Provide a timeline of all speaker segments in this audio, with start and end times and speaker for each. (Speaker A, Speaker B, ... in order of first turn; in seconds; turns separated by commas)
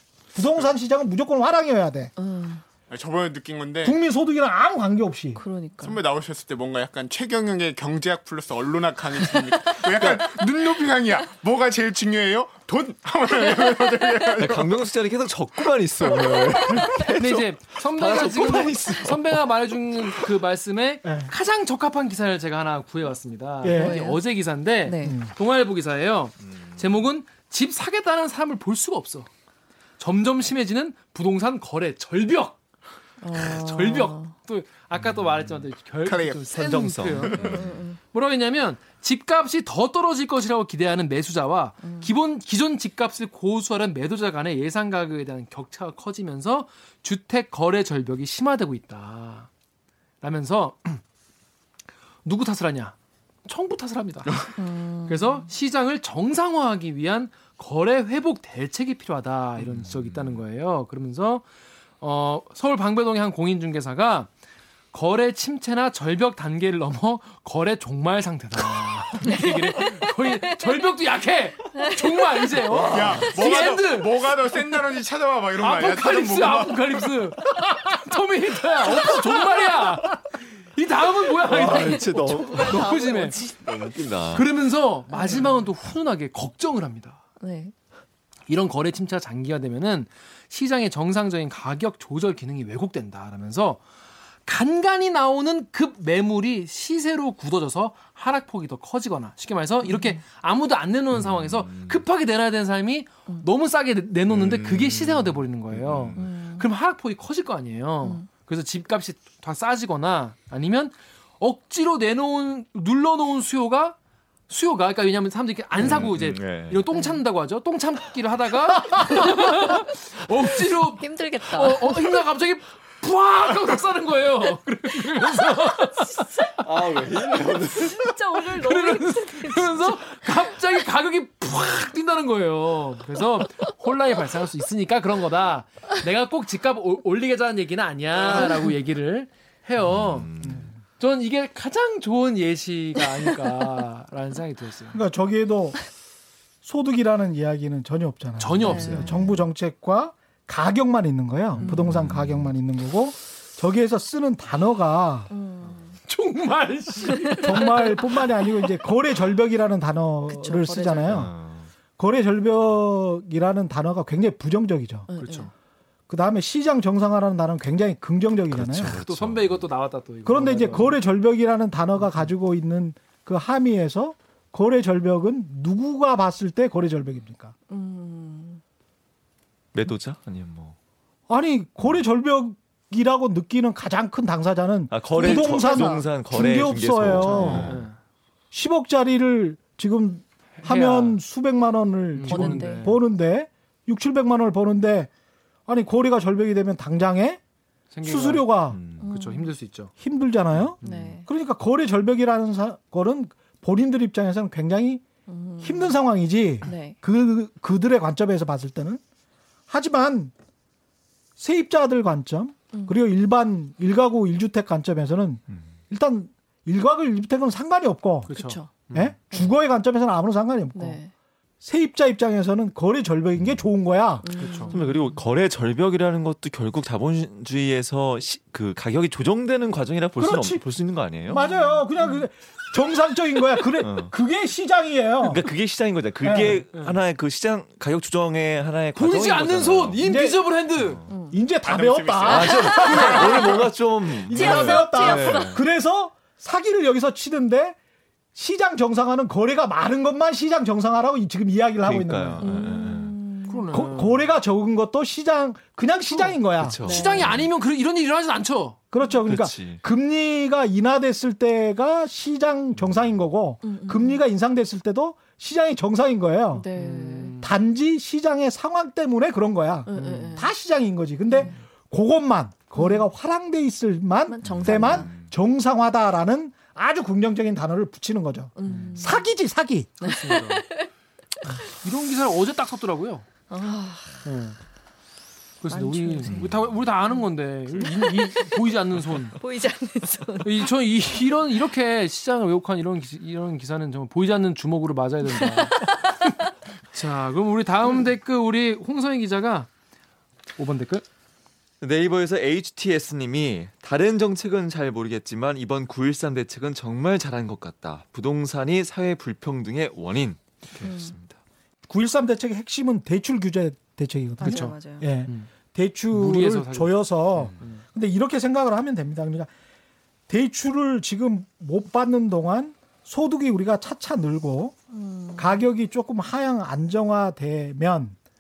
Speaker A: 0.3-2.1, Speaker B: 2.2-2.6, Speaker C: 2.9-4.0, Speaker A: 3.8-5.4, Speaker B: 5.4-6.0, Speaker C: 5.8-14.9, Speaker D: 14.4-19.5, Speaker C: 16.1-16.8, Speaker E: 17.2-29.3, Speaker A: 21.0-21.3, Speaker A: 23.6-24.0, Speaker B: 23.6-24.2, Speaker B: 24.8-25.2, Speaker A: 25.0-25.3, Speaker D: 26.5-26.8, Speaker E: 30.0-32.6, Speaker B: 33.2-34.3, Speaker E: 33.3-49.5, Speaker D: 35.1-35.5, Speaker C: 36.0-36.7, Speaker D: 36.5-37.8, Speaker B: 37.3-38.0, Speaker B: 41.8-42.1, Speaker E: 50.2-51.0, Speaker E: 52.2-54.5, Speaker B: 54.6-55.5, Speaker E: 55.1-61.5, Speaker D: 59.6-60.4, Speaker E: 62.0-64.3, Speaker E: 64.9-74.1, Speaker B: 69.3-70.0, Speaker B: 71.8-72.6, Speaker D: 72.7-73.4, Speaker C: 72.9-77.0, Speaker E: 75.6-83.4, Speaker D: 81.5-83.0, Speaker B: 81.5-84.0, Speaker D: 83.6-84.5, Speaker E: 84.3-87.2, Speaker B: 85.1-85.6, Speaker B: 87.4-87.7, Speaker E: 88.5-93.8, Speaker E: 94.5-114.0, Speaker B: 99.8-100.2, Speaker D: 101.2-102.0, Speaker D: 104.3-106.2, Speaker B: 106.2-106.7, Speaker E: 114.5-126.5, Speaker D: 115.8-116.8, Speaker B: 116.9-117.2, Speaker B: 119.0-120.0, Speaker B: 120.8-122.2, Speaker B: 125.7-130.6, Speaker D: 126.6-128.1, Speaker E: 128.4-140.3, Speaker B: 138.3-138.8, Speaker D: 139.8-140.7, Speaker A: 140.4-140.7, Speaker E: 141.0-145.0, Speaker A: 144.9-145.9, Speaker A: 146.6-155.3, Speaker E: 148.4-149.1, Speaker B: 148.6-149.2, Speaker D: 151.7-152.5, Speaker B: 155.3-156.0, Speaker E: 156.1-158.1, Speaker B: 157.1-157.7, Speaker A: 157.4-161.3, Speaker B: 160.3-161.2, Speaker D: 161.1-161.7, Speaker A: 162.0-165.1, Speaker B: 165.1-165.5, Speaker E: 165.2-165.5, Speaker A: 166.1-169.0, Speaker D: 168.5-169.7, Speaker E: 169.0-171.0, Speaker A: 170.3-177.5, Speaker B: 177.7-178.6, Speaker D: 179.7-180.8, Speaker A: 181.3-187.8, Speaker D: 184.9-187.9, Speaker B: 185.1-186.1, Speaker E: 187.3-188.0, Speaker A: 188.5-195.1, Speaker E: 190.6-191.2, Speaker E: 192.1-193.0, Speaker B: 192.3-192.9, Speaker A: 195.7-197.4, Speaker E: 197.9-199.9, Speaker A: 198.0-198.8, Speaker D: 198.7-199.0, Speaker B: 199.0-199.5, Speaker A: 200.0-205.0, Speaker B: 200.8-201.3, Speaker E: 200.8-201.1, Speaker B: 205.3-206.0, Speaker A: 205.6-209.0, Speaker B: 206.6-207.0, Speaker A: 209.7-210.3, Speaker A: 211.4-221.0, Speaker E: 218.3-219.2, Speaker B: 218.3-218.7, Speaker B: 220.7-221.1, Speaker A: 221.6-224.3, Speaker B: 224.2-224.9, Speaker E: 224.4-224.8, Speaker D: 224.7-231.4, Speaker A: 230.2-230.7, Speaker A: 231.3-235.4, Speaker B: 231.3-232.2, Speaker D: 233.8-234.1, Speaker D: 235.2-240.0, Speaker A: 236.2-236.6, Speaker E: 238.9-241.0, Speaker A: 240.0-240.4, Speaker D: 240.8-241.0, Speaker B: 241.1-241.4, Speaker A: 241.1-243.6, Speaker C: 241.7-243.4, Speaker D: 242.2-245.6, Speaker B: 242.4-243.6, Speaker B: 244.3-245.6, Speaker A: 244.3-247.8, Speaker A: 248.3-252.5, Speaker D: 251.8-253.2, Speaker B: 252.4-253.8, Speaker E: 253.5-254.2, Speaker A: 253.7-256.8, Speaker E: 256.1-258.8, Speaker D: 256.6-257.5, Speaker B: 256.8-257.3, Speaker A: 258.9-266.7, Speaker D: 259.3-259.8, Speaker B: 263.6-264.2, Speaker B: 266.5-267.4, Speaker E: 266.8-267.5, Speaker A: 267.4-280.0, Speaker B: 269.9-270.5, Speaker E: 270.0-270.4, Speaker B: 271.3-271.6, Speaker B: 272.8-273.1, Speaker B: 274.3-275.1, Speaker D: 274.5-275.3, Speaker B: 278.6-279.2, Speaker E: 278.6-279.0, Speaker E: 280.0-280.7, Speaker B: 280.0-280.9, Speaker E: 281.4-283.3, Speaker B: 283.5-284.2, Speaker E: 284.2-284.6, Speaker E: 285.6-289.4, Speaker B: 285.7-290.7, Speaker D: 286.4-286.8, Speaker E: 290.4-296.0, Speaker B: 295.5-296.4, Speaker E: 296.9-299.7, Speaker E: 300.6-301.1, Speaker D: 301.8-311.4, Speaker B: 310.8-311.1, Speaker A: 311.9-319.5, Speaker B: 314.4-315.1, Speaker E: 314.4-315.5, Speaker E: 316.1-317.0, Speaker A: 320.3-324.8, Speaker B: 324.9-325.6, Speaker A: 325.4-328.2